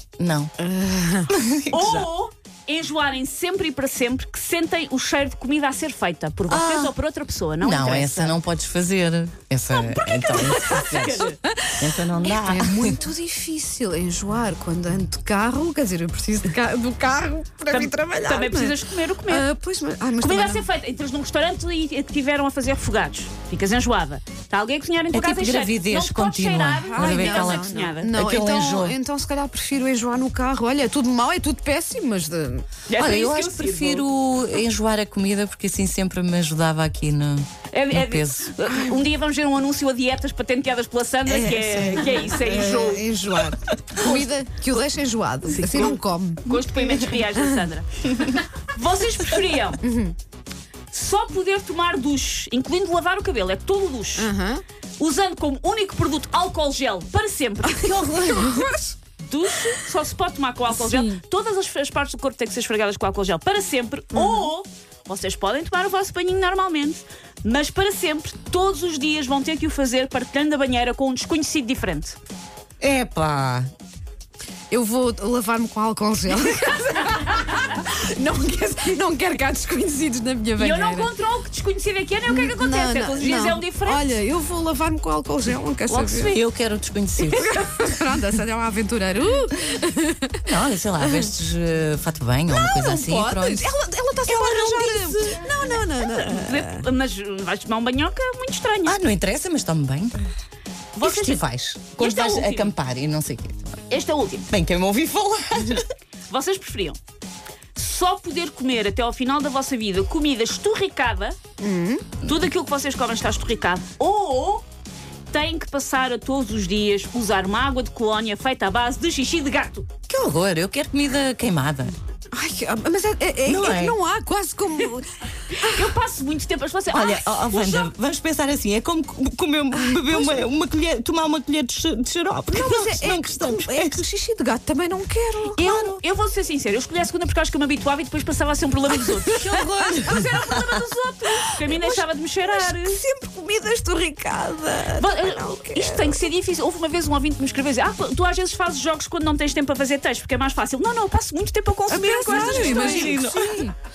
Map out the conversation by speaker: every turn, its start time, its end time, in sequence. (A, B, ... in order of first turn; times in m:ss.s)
0:00.2-0:00.5 A
0:00.6-0:01.3 B
0:01.3-0:02.1 A
0:01.7-0:08.4 C
0:06.5-0:06.9 A
0:07.6-0:13.0 A
0:09.8-0:11.4 C
0:10.5-0:10.8 B
0:12.0-0:20.7 B
0:17.7-0:19.5 C
0:20.2-0:28.1 C
0:25.1-0:29.0 A
0:26.9-0:32.6 B
0:32.9-0:34.0 C
0:32.9-0:38.5 A
0:37.7-0:43.1 C
0:38.7-0:39.0 B
0:41.3-0:47.6 B
0:45.4-0:48.1 C
0:48.7-0:49.8 C
0:49.8-0:50.1 B
0:50.9-0:54.3 C
0:54.2-0:54.6 B
0:55.0-0:58.0 C
0:57.8-0:58.9 B
0:57.8-0:58.7 A
0:59.2-1:12.2 C
1:04.1-1:04.5 B
1:12.8-1:13.7 A
1:14.7-1:21.1 B
1:20.6-1:24.1 C
1:22.3-1:26.4 B
1:25.9-1:26.4 C
1:26.2-1:27.6 A
1:27.2-1:30.4 B
1:30.4-1:33.7 A
1:31.0-1:31.3 B
1:32.5-1:36.8 B
1:34.3-1:35.4 A
1:36.0-1:39.0 C
1:38.8-1:40.2 A
1:40.9-1:41.4 C
1:41.0-1:43.8 A
1:42.0-1:42.7 C
1:43.9-1:44.5 C
1:44.5-1:45.8 A
1:46.3-1:47.0 C
1:47.7-1:51.4 C
1:51.6-1:52.1 B
1:52.2-1:54.6 C
1:55.3-1:59.9 C
2:00.1-2:01.9 A
2:02.3-2:05.9 B
2:03.4-2:04.0 A
2:05.6-2:07.9 C
2:06.9-2:14.0 A
2:09.8-2:10.5 B
2:12.5-2:15.9 B
2:15.6-2:16.0 A
2:15.7-2:23.0 C
2:19.3-2:26.2 B
2:19.5-2:20.4 A
2:25.0-2:33.4 C
2:31.9-2:33.7 B
2:32.3-2:33.6 A